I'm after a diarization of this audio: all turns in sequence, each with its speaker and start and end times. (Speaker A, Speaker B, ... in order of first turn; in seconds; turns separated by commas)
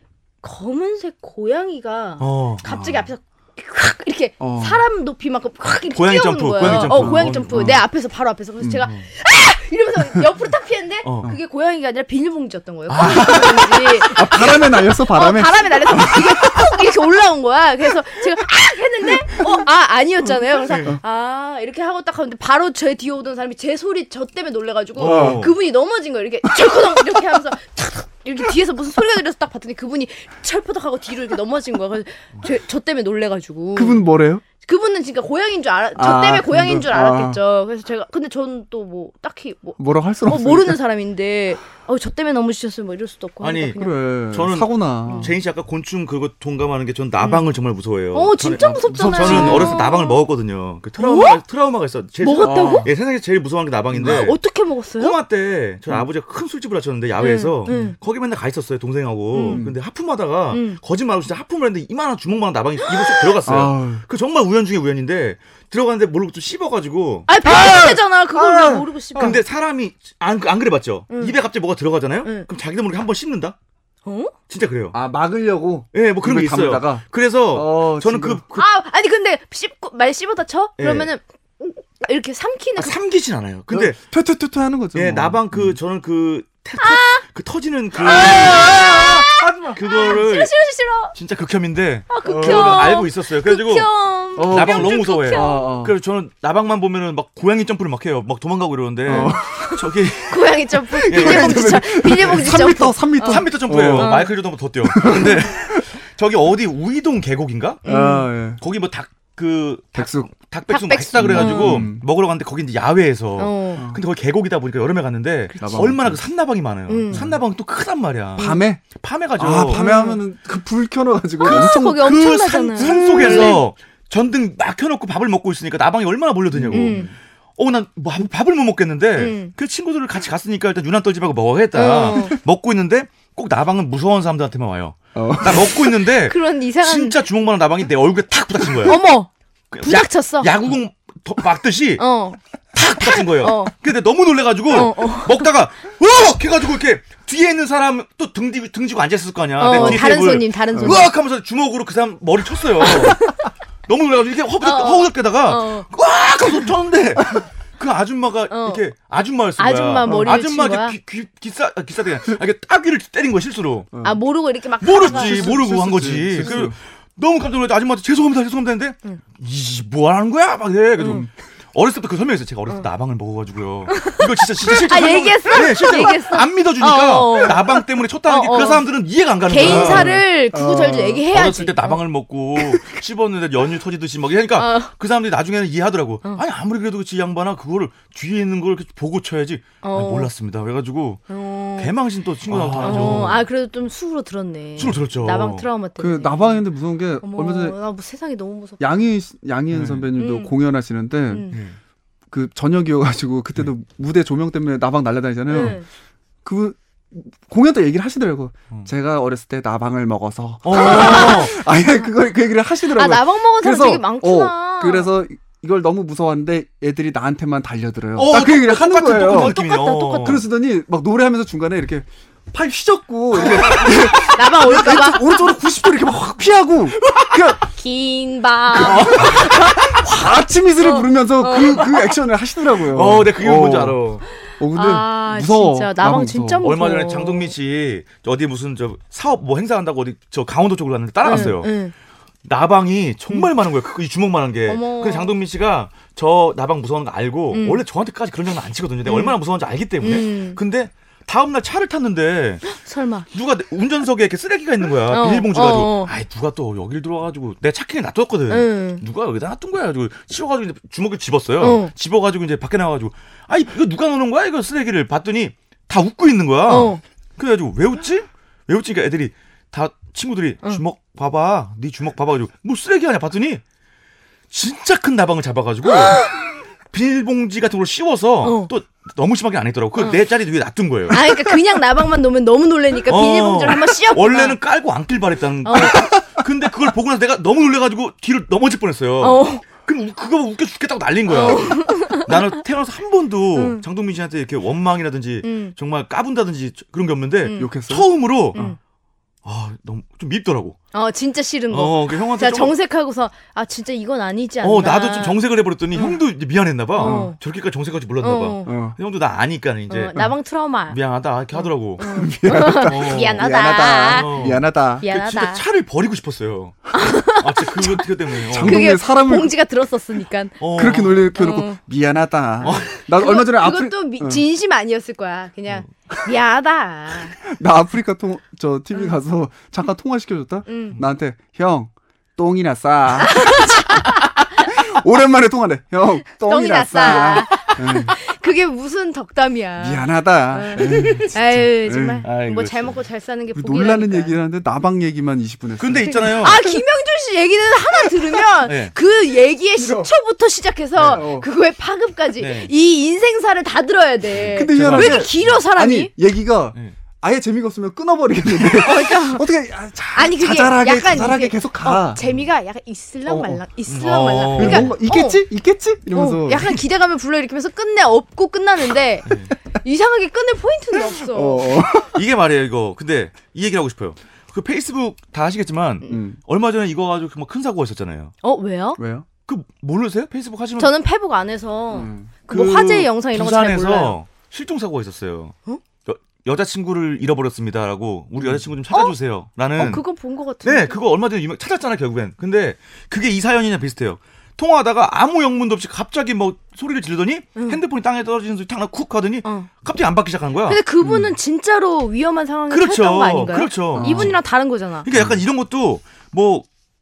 Speaker A: 0.4-34.0, Speaker B: 2.2-2.7, Speaker C: 2.7-2.9, Speaker C: 4.4-4.8, Speaker B: 5.9-7.8, Speaker C: 6.6-7.8, Speaker C: 8.6-8.8, Speaker B: 11.0-11.3, Speaker B: 12.9-13.7, Speaker C: 13.0-16.8, Speaker C: 19.3-19.6, Speaker B: 20.6-20.9, Speaker B: 24.9-25.6, Speaker C: 25.0-25.5, Speaker C: 26.5-27.1, Speaker C: 33.7-34.4, Speaker A: 34.6-44.0, Speaker C: 36.0-37.4, Speaker C: 39.8-40.8, Speaker B: 43.4-54.4, Speaker C: 43.8-45.4, Speaker A: 45.0-45.3, Speaker A: 48.1-50.2, Speaker C: 48.8-49.8, Speaker A: 51.0-51.4, Speaker A: 52.2-52.9, Speaker C: 52.4-52.9, Speaker C: 53.9-54.2, Speaker A: 54.0-55.2, Speaker B: 55.0-67.3, Speaker A: 57.2-58.0, Speaker C: 57.7-57.9, Speaker A: 59.3-59.6, Speaker C: 59.5-59.8, Speaker A: 60.5-60.8, Speaker C: 63.4-64.0, Speaker A: 67.3-69.4, Speaker C: 67.4-69.4, Speaker B: 69.1-73.5, Speaker A: 71.1-71.3, Speaker A: 72.2-72.5, Speaker A: 74.0-74.3, Speaker B: 74.5-75.0, Speaker C: 74.9-78.4, Speaker B: 75.9-78.7, Speaker A: 78.5-83.0, Speaker B: 80.8-81.1, Speaker B: 82.8-84.0, Speaker C: 83.7-85.8, Speaker B: 84.9-90.5, Speaker A: 86.8-87.2, Speaker A: 88.0-91.1, Speaker C: 88.1-89.8, Speaker B: 91.1-102.6, Speaker A: 92.1-95.7, Speaker C: 92.2-92.9, Speaker C: 94.3-95.9, Speaker C: 99.0-99.6, Speaker A: 99.1-104.3, Speaker C: 100.9-104.2, Speaker B: 103.2-107.8, Speaker C: 104.8-105.8, Speaker A: 107.8-108.3, Speaker C: 107.8-108.6, Speaker B: 108.6-119.8, Speaker C: 109.9-110.3, Speaker A: 110.7-111.9, Speaker C: 111.1-112.0, Speaker A: 113.4-113.9, Speaker C: 113.8-114.0, Speaker A: 115.5-115.8, Speaker C: 115.6-116.2, Speaker A: 116.9-117.3, Speaker C: 117.1-117.4, Speaker C: 118.4-118.8, Speaker A: 118.4-118.7, Speaker C: 119.4-123.6, Speaker A: 119.7-120.2, Speaker A: 121.4-123.6, Speaker B: 121.4-139.0, Speaker C: 126.5-127.1, Speaker A: 126.7-127.1, Speaker A: 129.2-129.5, Speaker A: 131.7-132.4, Speaker C: 135.1-135.9, Speaker A: 136.2-137.2, Speaker A: 138.8-139.3, Speaker B: 139.7-142.0, Speaker A: 139.8-140.5, Speaker A: 142.0-143.7, Speaker B: 142.7-153.3, Speaker A: 144.7-145.4, Speaker A: 149.6-151.1, Speaker C: 149.7-150.2, Speaker C: 150.7-151.1, Speaker A: 152.8-153.4, Speaker B: 153.9-163.9, Speaker A: 154.6-155.9, Speaker A: 158.5-158.8, Speaker A: 159.6-160.9, Speaker C: 160.0-160.4, Speaker C: 163.9-164.2, Speaker A: 164.0-165.7, Speaker B: 164.8-180.2, Speaker C: 165.0-166.8, Speaker A: 171.0-171.3, Speaker A: 173.9-178.8, Speaker A: 179.5-182.0, Speaker C: 179.6-181.2, Speaker B: 181.3-191.2, Speaker A: 184.5-184.9, Speaker A: 189.8-190.3, Speaker A: 191.3-191.9, Speaker B: 191.8-193.4, Speaker C: 192.5-193.4, Speaker A: 192.8-196.6, Speaker B: 194.8-195.7, Speaker C: 196.0-197.8, Speaker A: 197.2-198.8, Speaker C: 198.8-201.5, Speaker B: 199.7-200.1, Speaker A: 200.2-200.5, Speaker A: 201.3-201.6, Speaker B: 201.5-201.8, Speaker C: 202.3-205.8, Speaker A: 205.5-205.8, Speaker B: 205.5-205.8, Speaker C: 206.4-219.5, Speaker B: 210.6-211.5, Speaker A: 210.7-211.6, Speaker A: 212.9-215.1, Speaker B: 218.2-220.4, Speaker A: 219.2-220.4, Speaker C: 220.2-227.6, Speaker A: 223.4-225.5, Speaker B: 223.4-223.9, Speaker A: 227.7-230.0, Speaker C: 228.7-234.0, Speaker B: 228.8-229.4, Speaker A: 230.8-232.1, Speaker B: 232.9-234.2, Speaker C: 234.6-236.6, Speaker A: 234.7-237.5, Speaker B: 236.6-241.8, Speaker A: 241.2-241.9, Speaker B: 242.4-252.6, Speaker A: 244.7-245.3, Speaker A: 247.5-247.8, Speaker A: 249.1-249.3, Speaker A: 250.0-250.6, Speaker A: 252.6-253.3, Speaker B: 253.3-273.6, Speaker A: 255.1-256.1, Speaker A: 258.5-259.0, Speaker A: 261.6-261.9, Speaker A: 266.7-267.0, Speaker B: 274.5-276.3, Speaker A: 275.9-276.4, Speaker B: 276.9-281.2, Speaker A: 278.4-278.7, Speaker A: 281.1-284.6, Speaker B: 283.1-298.7, Speaker A: 285.6-286.1, Speaker A: 289.2-289.6, Speaker A: 291.3-292.5, Speaker A: 293.5-293.8, Speaker A: 295.4-295.7, Speaker A: 297.4-297.7, Speaker C: 297.6-298.7, Speaker B: 299.4-300.8, Speaker A: 300.9-305.4, Speaker B: 301.7-302.8, Speaker B: 304.6-310.3, Speaker A: 305.9-306.2, Speaker A: 306.9-307.4, Speaker C: 307.0-307.3, Speaker A: 308.2-308.7, Speaker C: 308.6-309.0, Speaker A: 309.9-311.0, Speaker B: 310.9-312.1, Speaker A: 311.5-314.5, Speaker C: 312.0-315.1, Speaker B: 312.8-313.4, Speaker B: 314.1-318.9, Speaker A: 315.0-315.6, Speaker A: 316.9-320.6, Speaker C: 318.5-319.5, Speaker B: 320.6-321.3, Speaker C: 320.7-324.4, Speaker A: 321.3-321.8, Speaker B: 322.6-322.9, Speaker A: 322.6-327.4, Speaker C: 327.4-338.1, Speaker A: 330.7-331.0, Speaker A: 333.2-334.7, Speaker A: 336.4-344.3, Speaker C: 339.8-342.2, Speaker B: 342.2-343.0, Speaker C: 343.5-346.3, Speaker B: 345.8-346.6, Speaker A: 346.1-356.1, Speaker B: 348.6-348.9, Speaker C: 349.8-350.1, Speaker B: 350.9-351.2, Speaker C: 351.1-351.5, Speaker B: 352.4-352.7, Speaker B: 354.3-355.6, Speaker C: 354.5-362.2, Speaker A: 358.6-359.4, Speaker A: 360.1-365.4, Speaker C: 363.3-363.6, Speaker B: 363.9-364.9, Speaker C: 364.5-366.8, Speaker A: 366.1-371.8, Speaker B: 369.2-369.5, Speaker C: 371.1-372.2, Speaker B: 372.1-378.3, Speaker C: 376.1-376.4, Speaker A: 378.4-379.0, Speaker C: 379.0-379.3, Speaker B: 379.4-380.9, Speaker A: 380.8-384.1, Speaker C: 381.9-382.3, Speaker B: 382.5-390.0, Speaker A: 389.8-391.0, Speaker B: 390.6-400.8, Speaker A: 397.6-397.8, Speaker A: 399.4-399.7, Speaker A: 400.7-405.1, Speaker C: 401.0-401.3, Speaker B: 402.7-404.4, Speaker C: 403.9-404.3, Speaker B: 405.0-406.7